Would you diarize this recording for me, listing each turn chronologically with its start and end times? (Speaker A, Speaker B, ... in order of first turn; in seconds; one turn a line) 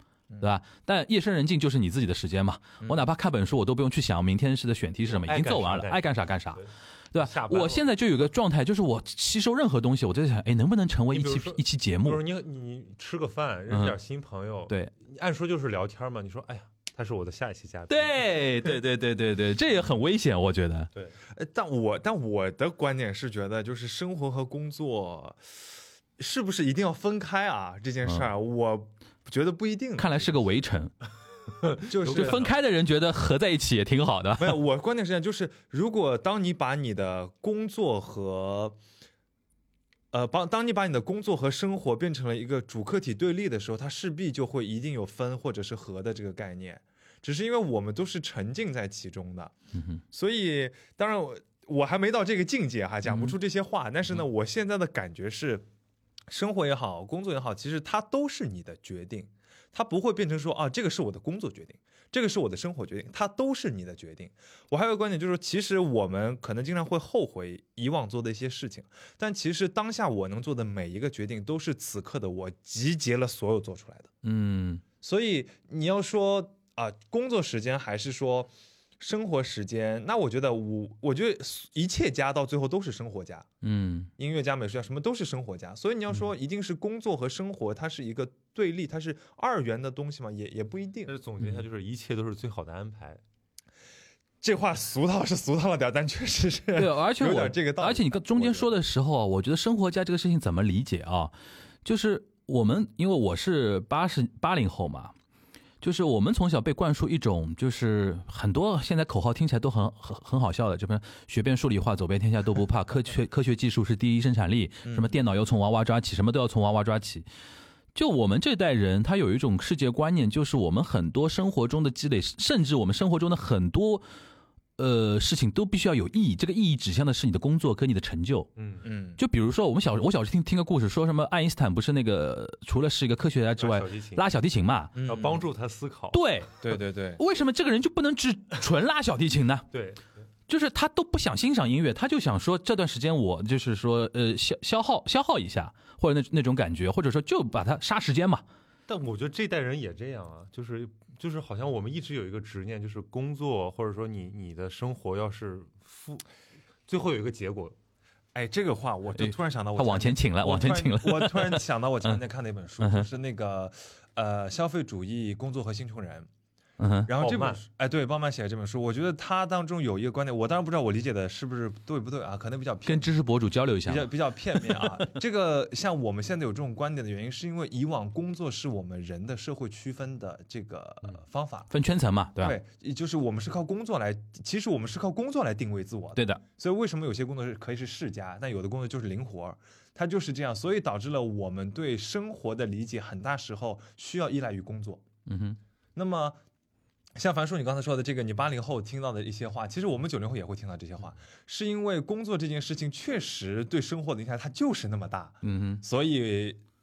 Speaker A: 0.4-12.2
Speaker B: 2.8-3.1
Speaker C: 5.0-7.9
Speaker C: 11.1-18.2
Speaker A: 13.7-13.9
Speaker A: 17.9-20.9
Speaker B: 21.3-30.3
Speaker A: 30.0-30.9
Speaker C: 31.6-32.5
Speaker B: 31.8-32.5
Speaker A: 32.0-34.6
Speaker B: 34.4-38.8
Speaker B: 40.1-49.5
Speaker B: 50.1-55.7
Speaker A: 53.1-53.4
Speaker B: 56.3-74.1
Speaker A: 74.2-74.8
Speaker B: 75.0-83.5
Speaker A: 83.6-84.1
Speaker B: 84.2-91.1
Speaker C: 91.1-93.2
Speaker B: 94.4-98.7
Speaker A: 96.8-101.3
Speaker A: 101.8-105.1
Speaker A: 105.8-117.3
Speaker B: 114.8-115.1
Speaker A: 118.0-124.0
Speaker A: 124.8-128.5
Speaker C: 128.6-128.9
Speaker B: 128.8-129.2
Speaker A: 129.2-134.9
Speaker C: 133.6-134.3
Speaker B: 134.9-135.4
Speaker C: 135.1-136.2
Speaker A: 136.1-139.7
Speaker B: 136.6-137.2
Speaker C: 139.7-140.1
Speaker A: 140.5-148.4
Speaker C: 148.9-156.2
Speaker C: 156.9-157.8
Speaker B: 158.3-166.3
Speaker A: 159.2-162.2
Speaker A: 162.8-163.1
Speaker A: 166.8-167.1
Speaker B: 167.1-173.1
Speaker C: 167.2-167.6
Speaker A: 172.9-174.9
Speaker B: 173.8-181.7
Speaker A: 181.7-182.6
Speaker B: 182.4-195.0
Speaker A: 195.3-195.6
Speaker B: 196.0-196.4
Speaker B: 197.2-206.6
Speaker A: 205.4-205.8